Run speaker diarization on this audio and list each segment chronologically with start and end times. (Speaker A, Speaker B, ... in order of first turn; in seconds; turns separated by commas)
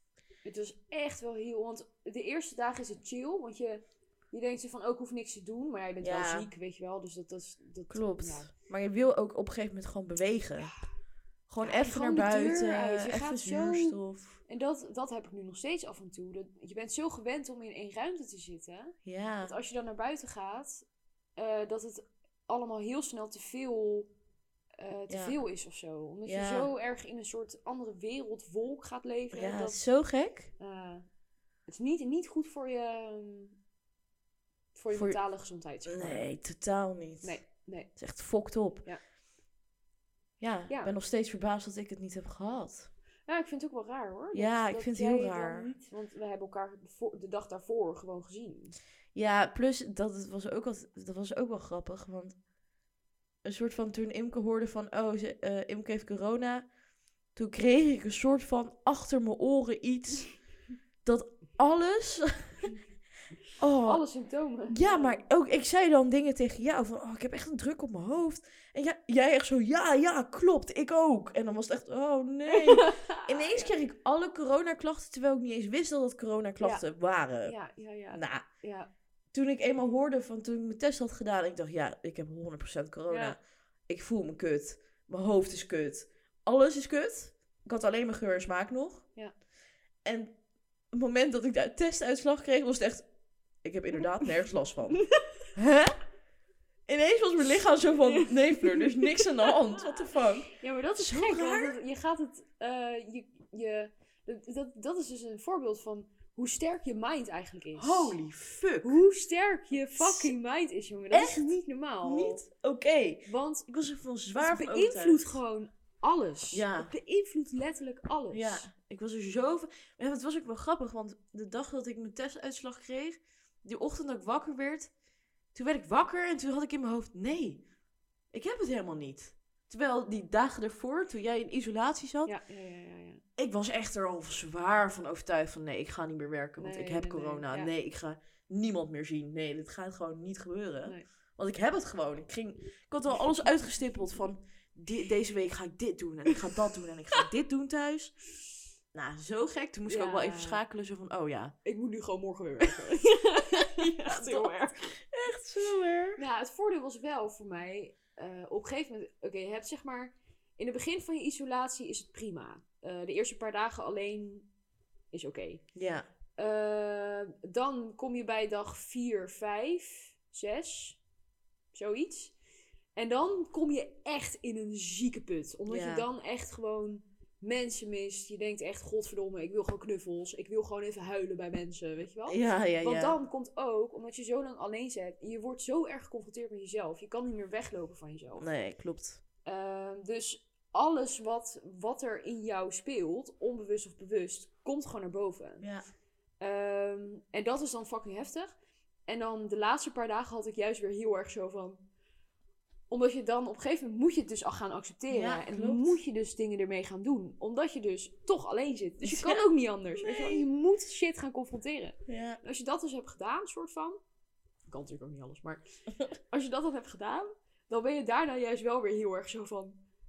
Speaker A: 0.5-8.5, Speaker B: 6.0-6.5, Speaker B: 7.9-10.7, Speaker B: 11.5-14.4, Speaker A: 11.6-20.9, Speaker B: 19.0-19.5, Speaker A: 21.4-24.1, Speaker A: 24.8-29.8, Speaker B: 25.1-25.4, Speaker B: 26.3-26.7, Speaker B: 29.3-30.5, Speaker A: 30.6-31.1, Speaker A: 31.7-33.6, Speaker A: 34.8-36.3, Speaker B: 34.9-35.2, Speaker B: 35.9-37.4, Speaker A: 37.2-37.9, Speaker B: 38.0-38.9, Speaker B: 40.4-42.9, Speaker A: 43.3-48.8, Speaker B: 44.3-45.7, Speaker B: 49.1-52.4, Speaker B: 53.4-56.7, Speaker B: 57.4-60.3, Speaker B: 61.0-62.8, Speaker B: 63.6-64.0, Speaker A: 63.8-65.2, Speaker B: 64.7-77.6, Speaker A: 72.5-73.7, Speaker A: 77.4-78.9, Speaker B: 78.1-78.5, Speaker B: 79.3-89.1, Speaker A: 83.1-83.4, Speaker B: 90.0-90.4, Speaker B: 90.9-93.1, Speaker B: 93.6-96.0, Speaker B: 96.9-101.8, Speaker A: 98.1-108.2, Speaker B: 107.7-109.0, Speaker A: 108.8-112.4, Speaker B: 109.9-110.3, Speaker B: 111.1-111.5, Speaker B: 112.0-115.4, Speaker A: 113.3-113.7, Speaker A: 114.3-118.7, Speaker B: 116.5-116.9, Speaker B: 118.3-124.9, Speaker B: 125.5-127.6, Speaker B: 128.3-132.3, Speaker A: 132.3-133.2, Speaker B: 133.4-148.2, Speaker A: 136.6-137.7, Speaker B: 148.9-151.6, Speaker A: 149.9-150.6, Speaker A: 151.7-154.9, Speaker B: 153.6-156.2, Speaker A: 156.2-164.5, Speaker A: 165.1-165.7, Speaker B: 165.8-166.1, Speaker A: 166.4-171.0, Speaker A: 171.7-172.3, Speaker A: 172.9-188.5, Speaker B: 175.7-176.1, Speaker B: 182.3-183.2, Speaker B: 188.4-189.2, Speaker A: 189.4-195.7, Speaker A: 196.4-198.6, Speaker A: 199.1-201.8, Speaker A: 202.9-214.0, Speaker B: 205.1-206.0, Speaker B: 209.0-209.4, Speaker B: 210.0-210.4, Speaker B: 212.1-212.4, Speaker A: 214.7-215.6, Speaker A: 216.3-219.8